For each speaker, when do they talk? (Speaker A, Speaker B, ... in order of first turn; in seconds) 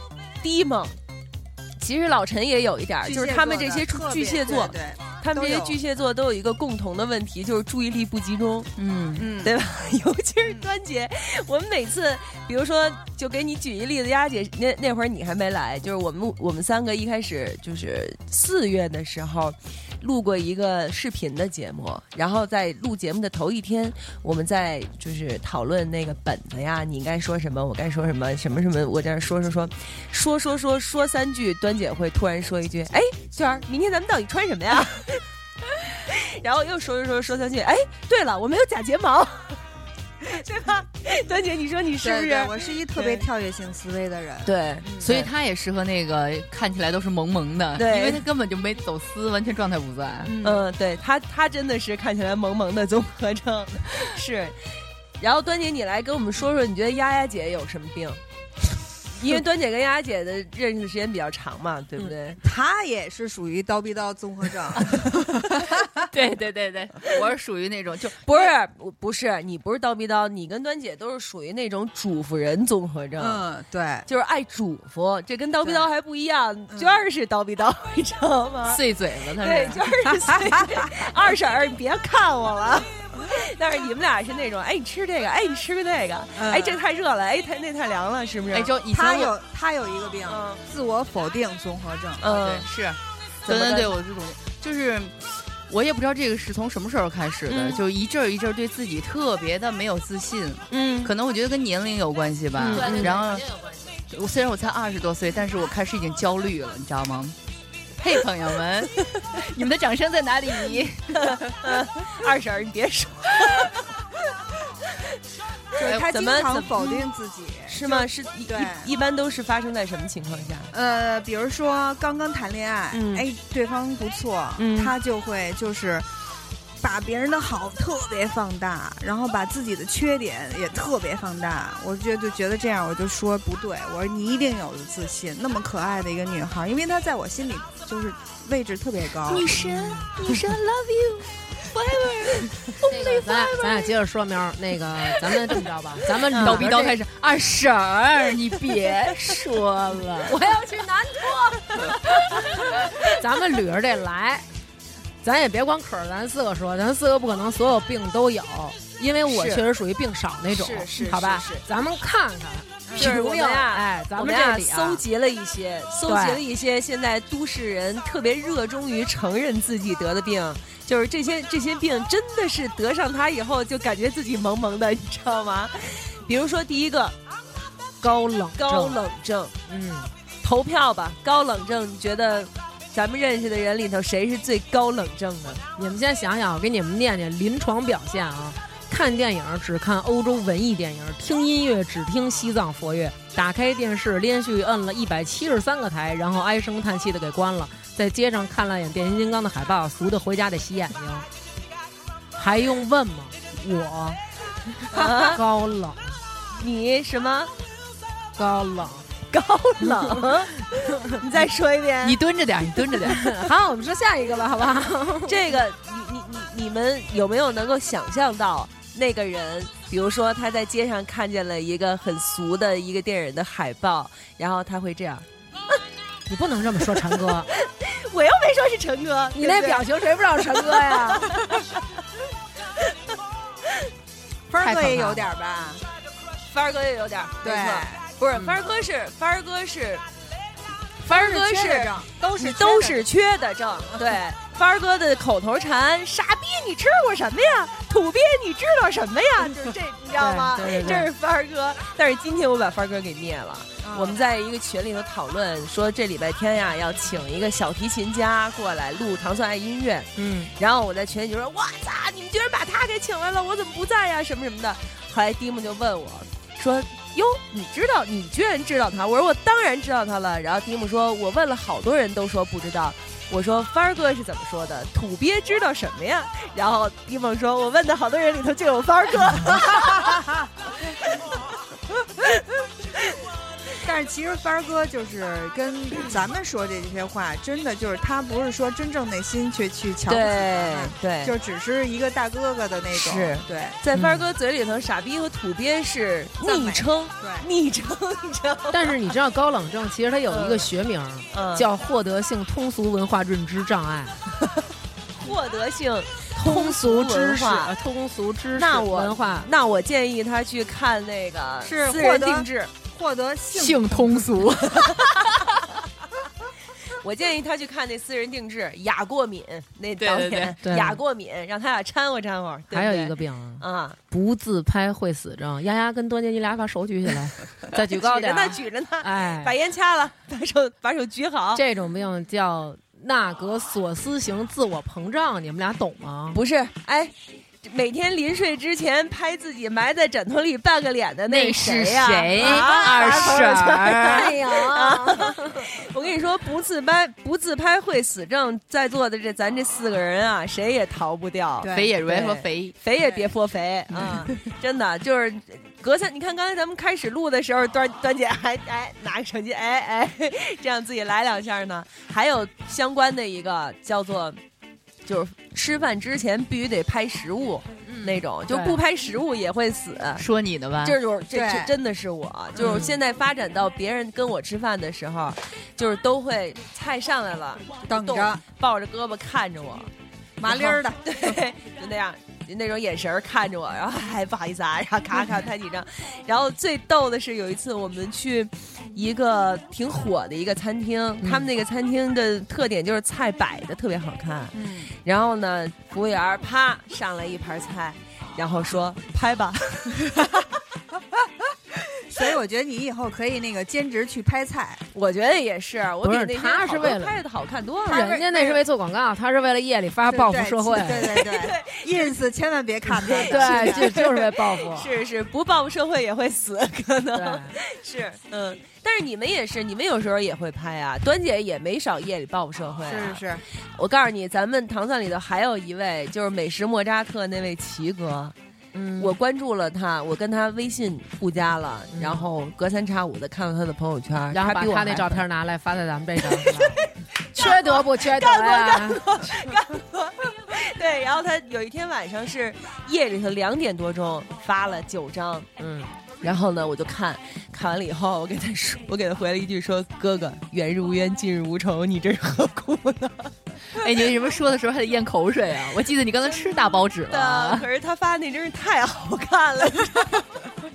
Speaker A: 0.4-1.0, 1.8-8.7, 9.4-35.2, 35.8-39.6, 40.2-43.3, 44.4-44.9, 47.8-48.3, 50.4-54.6, 55.2-58.2, 59.2-62.4, 68.2-73.4, 74.1-78.8, 79.4-89.2, 90.3-90.6, 92.2-92.7, 93.5-93.9, 97.5-97.8, 100.7-101.1, 102.6-103.2, 111.1-113.8, 115.9-117.1, 117.7-120.7, 122.9-123.3, 124.6-124.9, 146.3-146.8, 159.3-159.6, 160.5-161.7, 162.9-177.2, 178.6-179.5, 180.4-185.6, 204.9-205.4, 206.6-207.5, 209.3-212.2, 215.3-225.3, 227.5-231.3, 236.5-240.1, 241.1-280.2, 290.1-291.3, 292.9-299.0, 300.3-300.7, 301.3-301.7, 305.2-307.7, 308.6-312.7, 317.0-324.0, 327.9-331.6, 336.3-364.4, 365.1-370.2, 370.8-379.9, 380.5-400.1, 404.9-408.5, 411.0-412.2, 413.0-423.2, 423.8-428.3, 429.0-435.2, 436.2-445.5, 446.2-453.3, 456.4-460.3
Speaker B: 3.0-5.8, 9.2-9.5, 42.0-45.3, 50.2-50.7, 62.4-66.1, 73.2-74.0, 75.6-75.9, 76.7-77.0, 79.7-81.1, 86.4-86.8, 88.9-92.3, 115.8-118.9, 120.7-126.1, 126.8-139.6, 162.9-163.1, 234.5-235.8, 237.4-238.0, 241.1-243.1, 253.8-254.2, 283.8-293.8, 296.4-297.5, 311.6-314.3, 351.6-351.9, 353.0-353.3, 371.3-371.7, 372.6-372.9, 377.9-378.4, 380.4-381.4, 394.5-394.9, 402.0-404.8, 410.1-413.9, 422.9-423.4
Speaker C: 8.8-9.2, 45.0-50.3, 66.1-68.2, 78.7-79.8, 88.5-89.3, 92.3-103.5, 104.1-107.3, 108.0-111.5, 139.2-143.8, 146.4-150.0, 212.0-213.4, 320.0-320.6, 341.3-344.3, 351.7-352.8, 370.2-371.0, 453.8-457.7
Speaker D: 102.7-103.8, 142.9-147.0, 149.3-154.5, 155.2-165.0, 166.1-166.4, 178.0-179.0, 179.7-180.1, 185.8-201.3, 202.4-204.2, 204.8-206.2, 208.4-209.1, 209.8-211.2, 213.0-215.4, 226.3-227.5, 229.3-231.4, 234.6-235.3, 250.2-251.1, 260.2-260.5, 293.9-294.3, 298.7-304.2, 306.4-309.5, 313.5-315.0, 320.6-321.0, 322.7-329.5, 331.6-336.4, 342.4-343.3, 344.1-345.6, 367.9-368.8, 372.6-373.0, 406.0-407.2, 407.9-411.1, 413.2-414.9, 417.1-417.6, 428.7-429.1, 431.9-432.3, 434.3-436.8, 437.4-439.0, 445.6-445.9